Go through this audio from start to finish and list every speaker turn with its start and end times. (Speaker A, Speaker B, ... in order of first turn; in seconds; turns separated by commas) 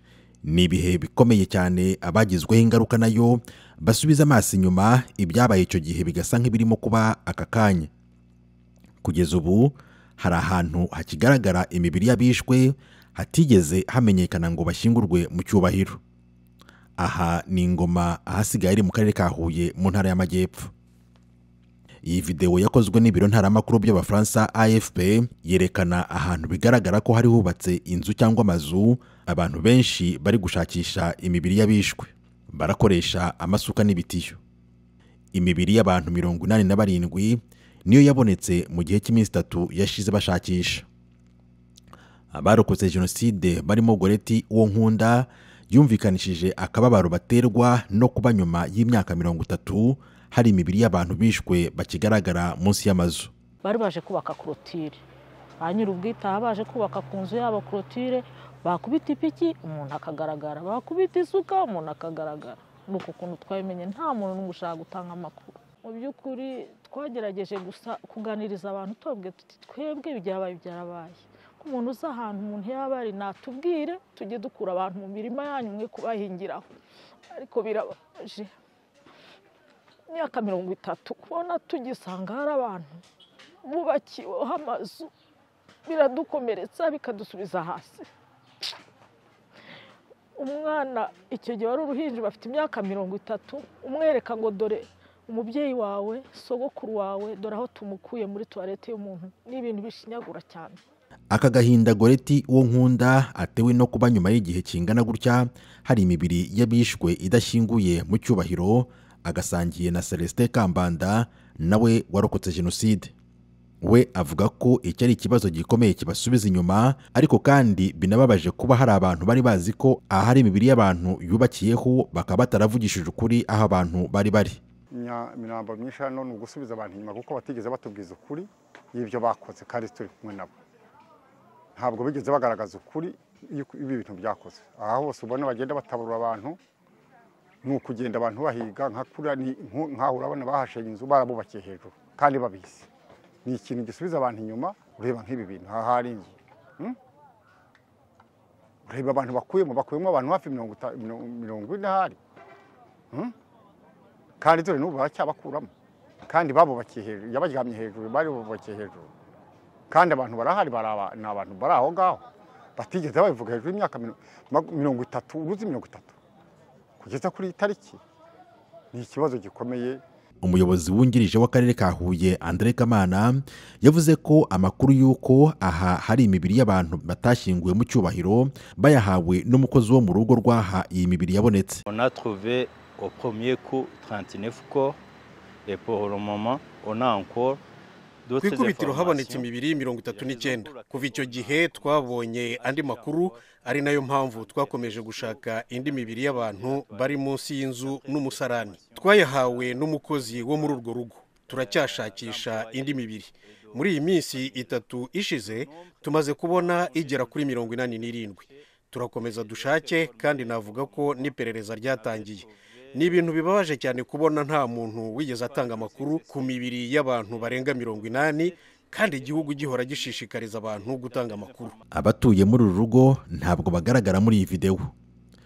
Speaker A: 0.4-7.9, Speaker A: 9.0-16.0, Speaker A: 17.0-20.7, Speaker A: 22.0-34.4, Speaker A: 35.3-40.9, Speaker A: 42.3-53.3, Speaker B: 53.6-55.0, Speaker B: 55.6-76.7, Speaker B: 77.3-78.5, Speaker B: 80.1-83.0, Speaker B: 83.6-85.1, Speaker B: 85.8-88.0, Speaker B: 90.3-100.8, Speaker A: 101.3-113.1, Speaker A: 113.8-124.6, Speaker C: 124.9-130.5, Speaker C: 131.8-136.6, Speaker C: 137.6-142.9, Speaker C: 143.4-147.0, Speaker C: 148.8-152.2, Speaker C: 154.4-155.7, Speaker C: 156.3-159.1, Speaker C: 159.9-162.2, Speaker C: 162.8-166.2, Speaker C: 167.0-168.0, Speaker C: 168.9-170.0, Speaker A: 170.4-181.8, Speaker D: 181.9-185.0, Speaker D: 185.7-187.6, Speaker D: 188.2-200.9, Speaker E: 188.4-221.7, Speaker D: 201.4-208.6, Speaker D: 209.2-213.4, Speaker D: 214.6-221.8, Speaker A: 221.9-224.9